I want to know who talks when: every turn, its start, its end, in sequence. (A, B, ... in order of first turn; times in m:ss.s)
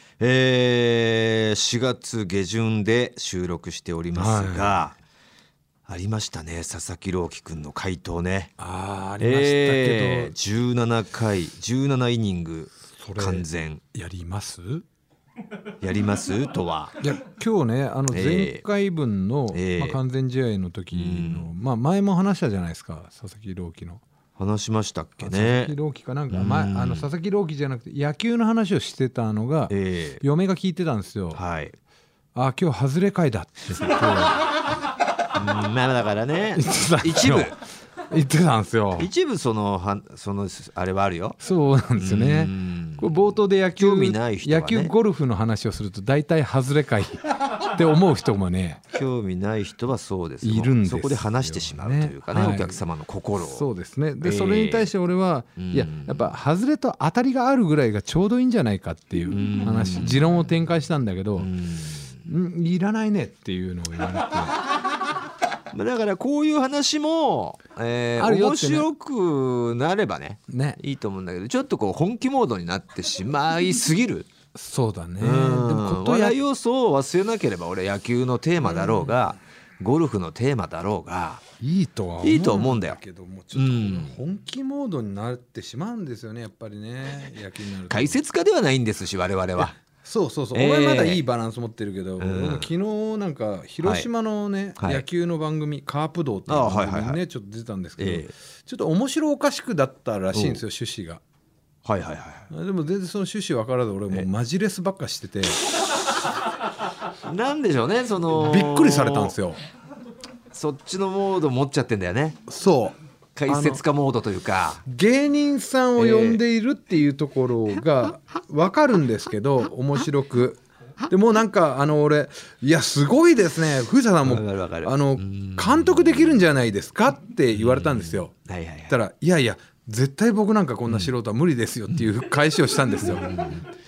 0:00.2-0:05.0 A
0:04.2-0:04.9 B
0:05.9-0:08.5 A
0:08.6-0:10.3 B
0:09.2-0:13.8 A
0:12.9-0:14.8 B
0:15.8-0:17.0 A
0:17.0-0:24.0 B
0:18.1-0:18.6 A
0:19.5-0:20.0 A
0:20.9-0:21.5 A
0:24.4-0:25.7 A
0:25.2-0:31.4 B
0:26.3-0:27.1 A
0:29.7-0:30.2 A
0:31.3-0:31.8 A
0:32.3-0:34.4 B
0:33.7-0:34.3 A
0:35.3-0:37.6 A
0:36.6-0:37.6 B
0:38.1-0:39.1 B
0:39.0-0:41.4 A
0:41.4-0:48.8 B
0:42.0-0:43.1 A
0:43.8-0:44.9 A
0:48.9-0:53.6 A
0:50.4-0:52.8 B
0:53.4-1:01.5 B
0:54.2-0:54.9 A
0:55.6-0:56.2 A
0:59.3-1:00.2 A
1:01.4-1:02.2 A
1:02.2-1:04.6 B
1:05.7-1:14.3 A
1:08.2-1:08.9 B
1:10.5-1:10.8 B
1:14.5-1:16.4 B
1:15.2-1:21.4 A
1:18.6-1:19.3 B
1:21.6-1:28.2 B
1:22.2-1:23.0 A
1:23.5-1:24.2 A
1:27.9-1:29.8 A
1:29.6-1:41.2 B
1:30.5-1:31.2 A
1:32.2-1:32.7 A
1:33.8-1:34.1 A
1:34.8-1:35.0 A
1:36.5-1:37.2 A
1:38.0-1:38.3 A
1:40.3-1:40.6 A
1:41.8-1:42.5 A
1:42.5-1:45.6 B
1:47.2-1:49.3 A
1:48.3-1:49.6 B
1:50.5-1:52.4 A
1:52.5-1:53.0 B
1:53.3-1:54.8 A
1:53.5-1:53.8 B
1:54.8-2:08.3 B
1:56.0-1:56.4 A
2:04.2-2:06.3 A
2:07.7-2:09.0 A
2:08.9-2:13.3 B
2:13.0-2:13.6 A